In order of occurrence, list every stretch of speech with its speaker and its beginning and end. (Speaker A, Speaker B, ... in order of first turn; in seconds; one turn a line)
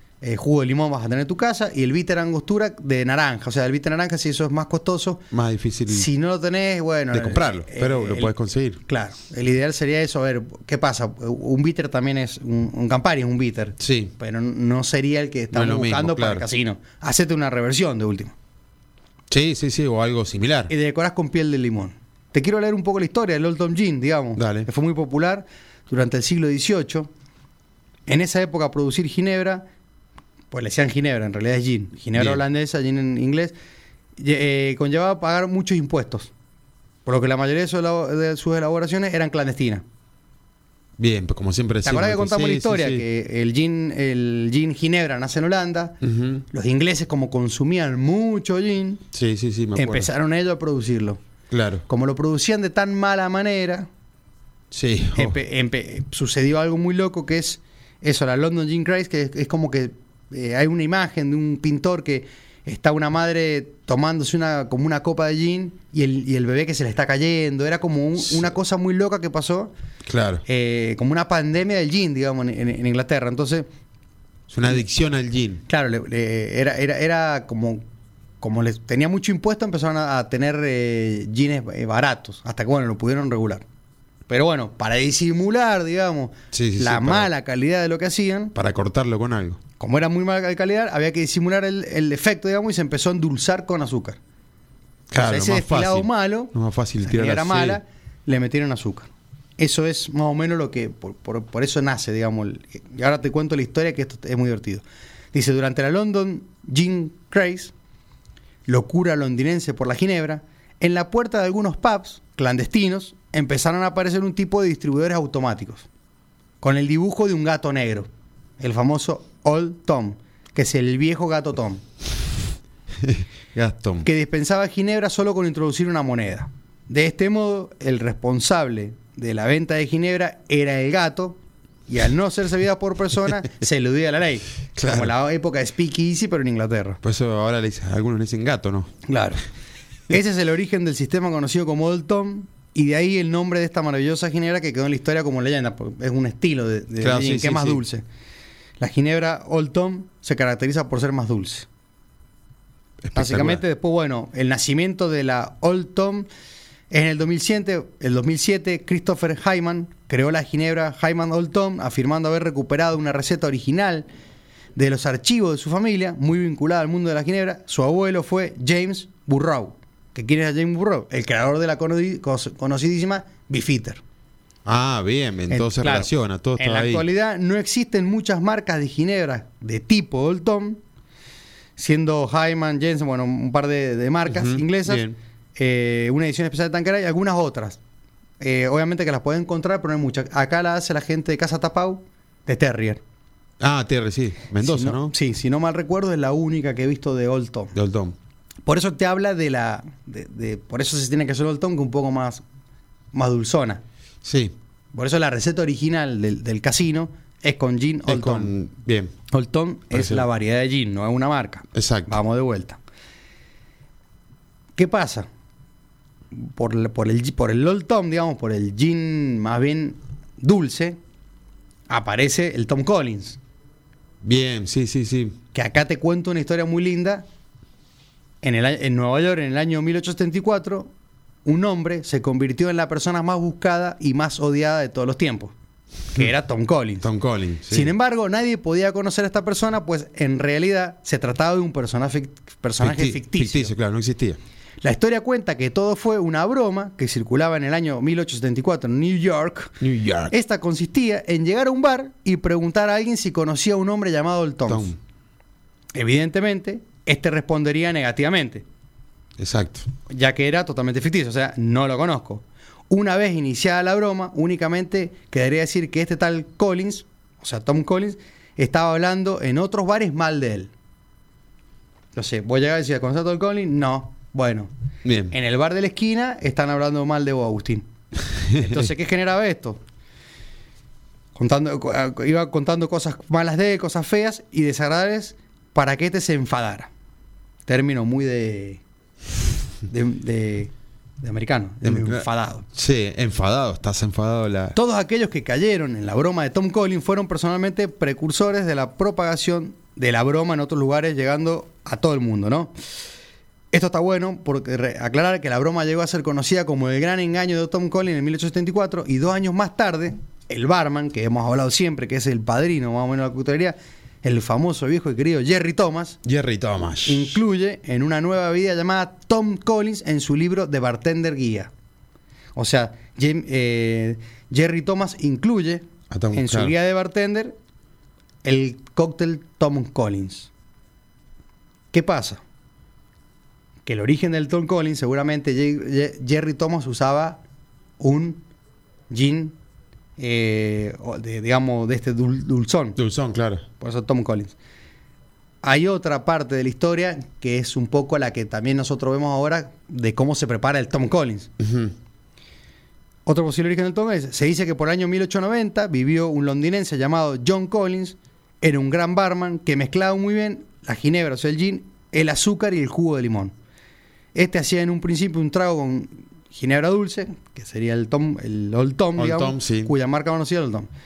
Speaker A: 0.2-5.2
Speaker B: 5.3-6.1
Speaker A: 5.9-18.4
Speaker B: 7.1-8.8
Speaker B: 13.8-14.1
Speaker B: 15.5-16.4
Speaker B: 19.3-20.7
Speaker A: 20.7-27.1
Speaker B: 24.4-24.7
Speaker A: 28.1-29.7
Speaker A: 30.5-33.5
Speaker B: 32.1-32.4
Speaker A: 34.2-36.3
Speaker A: 37.1-39.8
Speaker B: 41.0-43.0
Speaker A: 41.8-46.0
Speaker B: 46.0-46.4
Speaker A: 46.5-49.0
Speaker B: 49.1-50.1
Speaker A: 49.8-51.2
Speaker B: 51.5-51.9
Speaker A: 51.9-53.9
Speaker B: 54.7-55.4
Speaker A: 55.2-69.7
Speaker B: 68.2-68.5
Speaker B: 70.1-70.4
Speaker A: 70.5-73.7
Speaker B: 74.5-75.6
Speaker A: 75.7-77.8
Speaker A: 78.4-83.7
Speaker A: 84.3-88.5
Speaker B: 86.5-87.3
Speaker B: 88.5-89.6
Speaker A: 89.8-94.2
Speaker B: 95.1-97.8
Speaker A: 95.2-107.7
Speaker A: 108.7-115.9
Speaker A: 116.6-118.1
Speaker A: 118.6-121.8
Speaker B: 123.0-124.1
Speaker A: 124.0-137.0
Speaker B: 134.8-135.1
Speaker B: 137.0-138.9
Speaker A: 139.1-139.4
Speaker A: 140.1-148.0
Speaker B: 147.0-147.8
Speaker A: 148.8-151.7
Speaker B: 153.0-153.6
Speaker A: 153.2-156.3
Speaker A: 156.9-164.1
Speaker A: 164.8-174.0
Speaker B: 174.7-177.1
Speaker A: 175.5-180.8
Speaker A: 181.8-185.0
Speaker B: 184.3-185.2
Speaker A: 185.6-187.8
Speaker A: 188.4-193.0
Speaker B: 193.6-195.1
Speaker A: 194.6-197.7
Speaker B: 197.7-198.2
Speaker A: 198.7-202.4
Speaker A: 203.1-203.8
Speaker B: 204.2-204.6
Speaker A: 204.9-208.5
Speaker B: 208.1-209.1
Speaker A: 209.3-212.8
Speaker B: 209.9-210.2
Speaker B: 211.7-212.2
Speaker A: 214.8-215.3
Speaker A: 216.3-221.0
Speaker A: 221.9-223.4
Speaker B: 224.2-225.4
Speaker A: 225.5-227.3
Speaker A: 228.4-230.9
Speaker A: 231.4-235.5
Speaker A: 236.1-237.1
Speaker B: 237.0-237.9
Speaker A: 237.7-243.7
Speaker B: 242.8-244.4
Speaker A: 244.8-249.8
Speaker B: 249.8-250.3
Speaker A: 250.3-254.9
Speaker B: 254.7-255.0
Speaker A: 255.9-258.6
Speaker B: 259.4-259.9
Speaker A: 260.1-270.7
Speaker A: 272.1-274.7
Speaker B: 275.0-275.4
Speaker A: 275.3-277.9
Speaker B: 278.4-278.9
Speaker A: 278.5-279.8
Speaker A: 281.4-286.9
Speaker A: 287.7-288.8
Speaker A: 289.9-292.6
Speaker B: 291.8-294.8
Speaker A: 294.8-302.7
Speaker A: 303.7-316.2
Speaker B: 316.2-317.4
Speaker A: 317.0-321.7
Speaker A: 322.6-327.6
Speaker B: 326.1-326.7
Speaker A: 328.4-330.5
Speaker A: 331.9-332.4
Speaker A: 333.9-337.4
Speaker A: 338.0-338.4
Speaker A: 339.1-339.6
Speaker A: 340.2-343.0
Speaker B: 343.0-343.6
Speaker A: 343.8-344.6
Speaker A: 345.6-351.5
Speaker B: 351.6-351.9
Speaker A: 353.3-363.5
Speaker A: 364.4-370.9
Speaker B: 369.2-369.9